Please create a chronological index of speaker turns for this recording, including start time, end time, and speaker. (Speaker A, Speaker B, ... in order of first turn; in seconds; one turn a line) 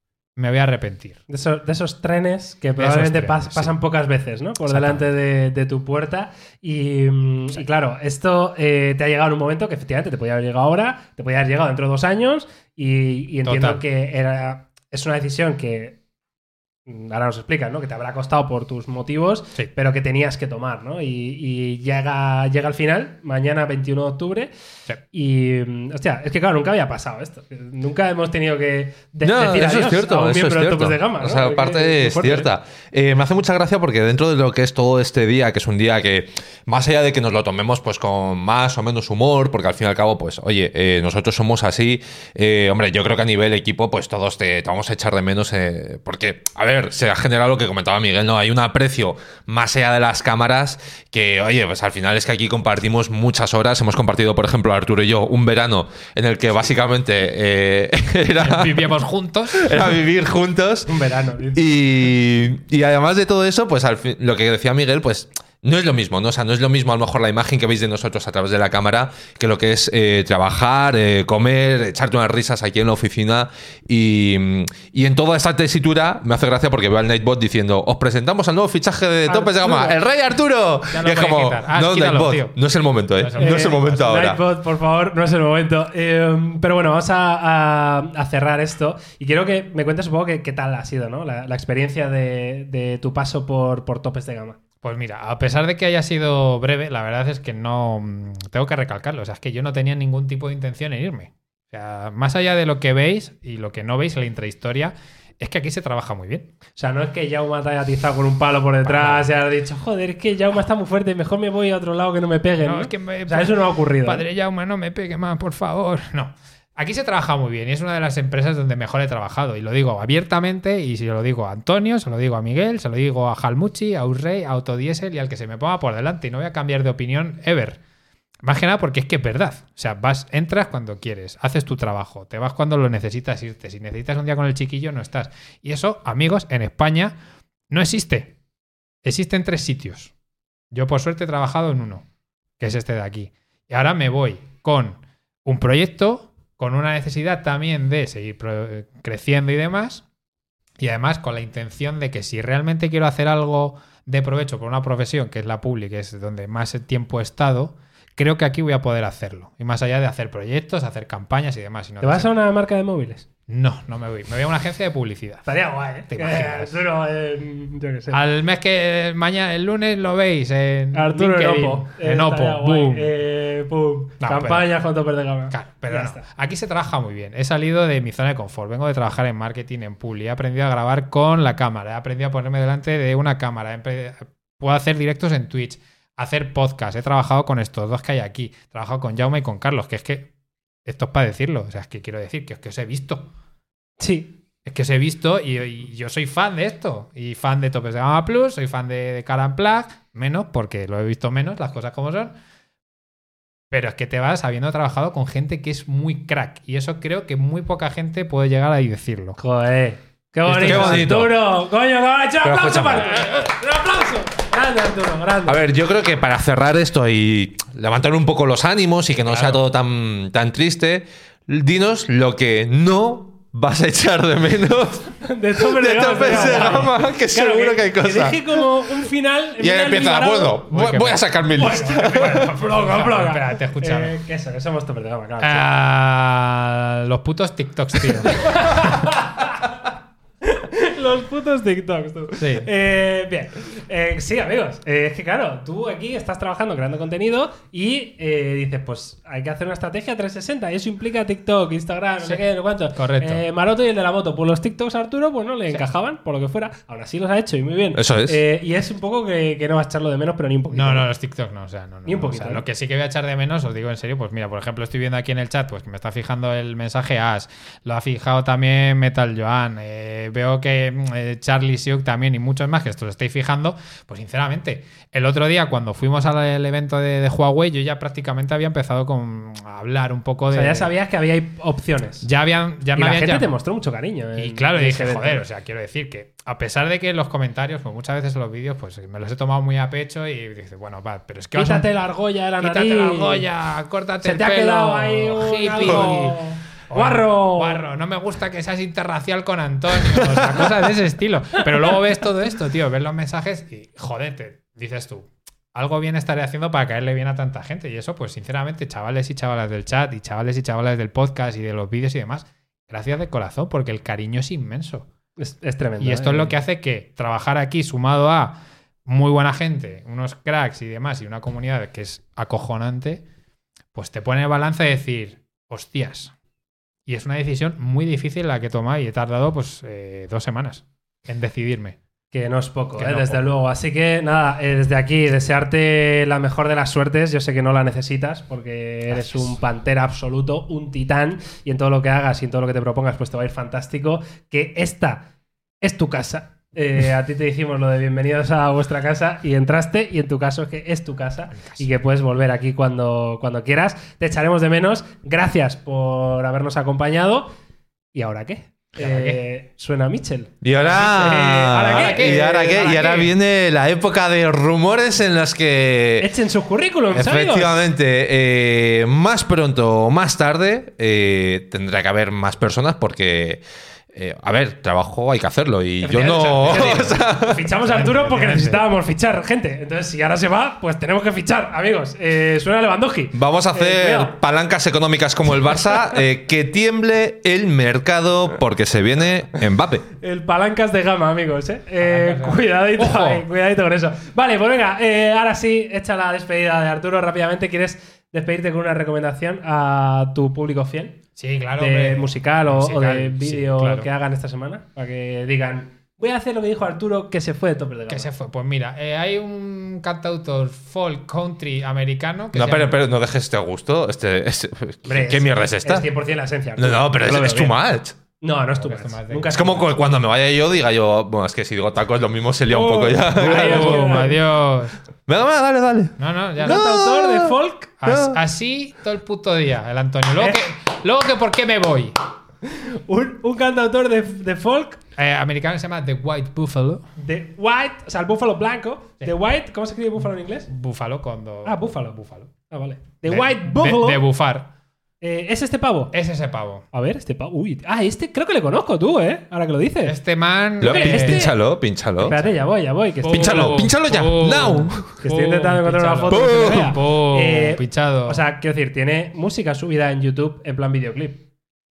Speaker A: 0.4-1.2
Speaker B: 1.3-16.0
Speaker A: 2.8-3.7
Speaker A: 4.7-5.0
Speaker A: 13.4-13.8
Speaker B: 16.9-24.5
Speaker B: 25.1-32.5
Speaker C: 29.2-58.9
Speaker A: 58.4-59.9
Speaker C: 59.5-60.9
Speaker B: 60.9-61.7
Speaker C: 61.5-84.4
Speaker B: 79.3-80.0
Speaker A: 80.9-82.6
Speaker A: 83.2-84.0
Speaker B: 83.4-94.6
Speaker A: 94.8-106.5
Speaker B: 106.8-114.2
Speaker A: 108.8-109.3
Speaker A: 112.6-127.8
Speaker A: 128.4-137.2
Speaker A: 137.7-138.3
Speaker A: 139.0-140.1
Speaker A: 140.7-142.1
Speaker A: 142.6-150.0
Speaker A: 150.8-162.3
Speaker B: 162.0-163.3
Speaker A: 163.5-165.5
Speaker B: 165.5-168.2
Speaker A: 166.1-166.8
Speaker A: 168.1-173.1
Speaker B: 170.9-176.2
Speaker A: 174.2-174.7
Speaker A: 175.5-190.3
Speaker A: 190.9-193.3
Speaker B: 194.0-194.4
Speaker A: 194.7-202.3
Speaker A: 203.7-209.4
Speaker B: 209.4-215.6
Speaker A: 210.5-211.2
Speaker C: 210.5-211.3
Speaker C: 212.4-213.4
Speaker C: 215.5-228.6
Speaker A: 219.3-219.6
Speaker B: 225.2-230.7
Speaker A: 226.2-226.9
Speaker C: 229.6-232.5
Speaker A: 230.7-234.2
Speaker B: 231.6-235.7
Speaker A: 235.4-239.0
Speaker B: 238.3-239.7
Speaker B: 240.4-261.1
Speaker A: 242.4-242.7
Speaker A: 253.0-253.4
Speaker C: 257.9-258.4
Speaker A: 260.7-280.9
Speaker B: 262.1-262.6
Speaker B: 280.5-282.3
Speaker A: 282.2-283.5
Speaker B: 283.0-285.4
Speaker A: 284.4-291.9
Speaker B: 291.6-293.5
Speaker A: 292.6-296.4
Speaker B: 294.2-297.8
Speaker A: 296.9-315.1
Speaker B: 300.5-300.8
Speaker B: 315.4-316.6
Speaker A: 316.0-323.2
Speaker A: 323.9-326.3
Speaker A: 327.1-332.0
Speaker B: 332.3-345.2
Speaker A: 333.0-333.4
Speaker A: 339.1-339.5
Speaker B: 345.8-357.5
Speaker A: 351.5-351.9
Speaker B: 358.1-363.3
Speaker A: 359.0-359.4
Speaker C: 360.6-366.3
Speaker A: 360.8-362.7
Speaker B: 366.2-367.9
Speaker C: 367.1-373.6
Speaker C: 374.1-377.6
Speaker B: 376.0-384.3
Speaker A: 377.8-378.8
Speaker C: 383.3-390.1
Speaker B: 390.2-401.2
Speaker A: 392.0-393.4
Speaker A: 401.4-404.1
Speaker B: 401.8-408.3
Speaker A: 408.1-412.9
Speaker C: 412.5-416.1
Speaker B: 415.1-417.8
Speaker C: 416.8-418.2
Speaker B: 418.4-420.0
Speaker A: 418.8-419.5
Speaker C: 419.5-424.3
Speaker B: 422.7-424.4
Speaker A: 423.4-425.0
Speaker C: 425.3-428.4
Speaker A: 426.2-426.8
Speaker B: 426.6-428.0
Speaker A: 428.0-432.1
Speaker B: 432.6-435.0
Speaker A: 435.2-437.1
Speaker B: 437.2-440.7
Speaker A: 440.7-441.9
Speaker B: 441.6-444.3
Speaker A: 443.3-444.7
Speaker B: 445.2-446.1
Speaker A: 446.1-446.9
Speaker B: 446.9-450.2
Speaker A: 450.0-451.5
Speaker B: 450.8-451.6
Speaker C: 450.8-452.4
Speaker A: 452.2-452.6
Speaker B: 452.2-453.9
Speaker A: 453.2-458.4
Speaker C: 453.2-455.2
Speaker B: 455.2-461.4
Speaker C: 456.3-456.9